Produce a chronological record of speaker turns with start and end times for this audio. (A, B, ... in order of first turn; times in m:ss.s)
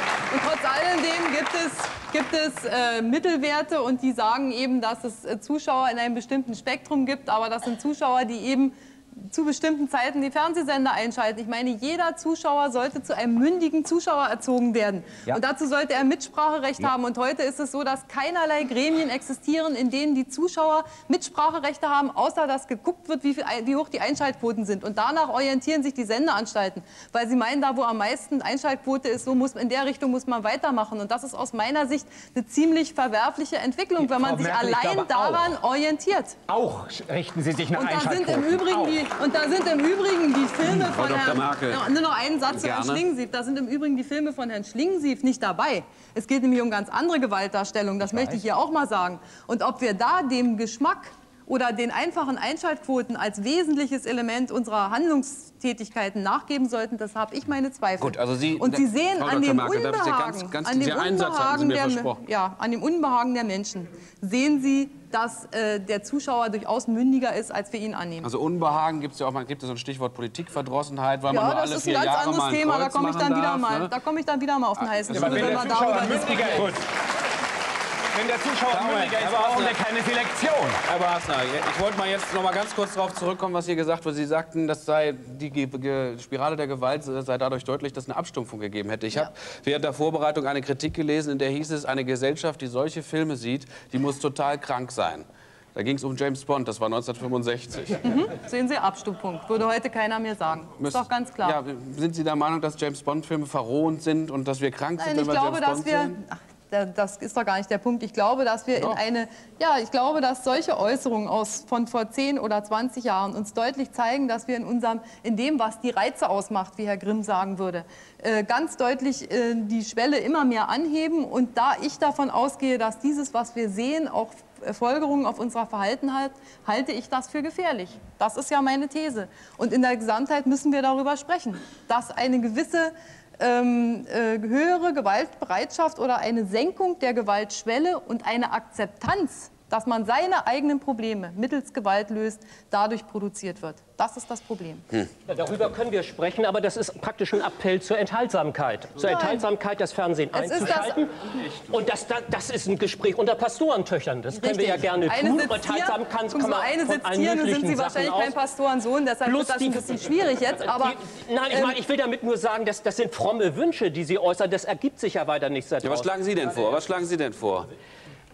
0:00.3-0:36.4 A
0:34.0-0:35.5 B
0:36.5-0:39.0 B
0:37.7-1:08.3 A
0:40.6-0:41.8 C
0:42.5-0:43.0 C
0:48.0-0:48.4 B
0:58.0-1:02.2 C
1:08.2-1:13.9 C
1:11.3-1:16.7 A
1:15.1-1:16.8 B
1:18.1-1:20.8 B
1:18.7-1:19.4 C
1:21.0-1:35.2 C
1:35.8-1:37.9 C
1:38.0-1:41.6 A
1:40.8-1:46.2 C
1:45.0-2:25.0 A
2:25.3-2:38.4 D
2:29.0-2:29.5 A
2:30.3-2:31.0 A
2:34.3-2:41.0 A
2:39.2-2:40.0 D
2:40.6-2:46.1 D
2:41.5-2:41.8 A
2:46.0-2:47.7 C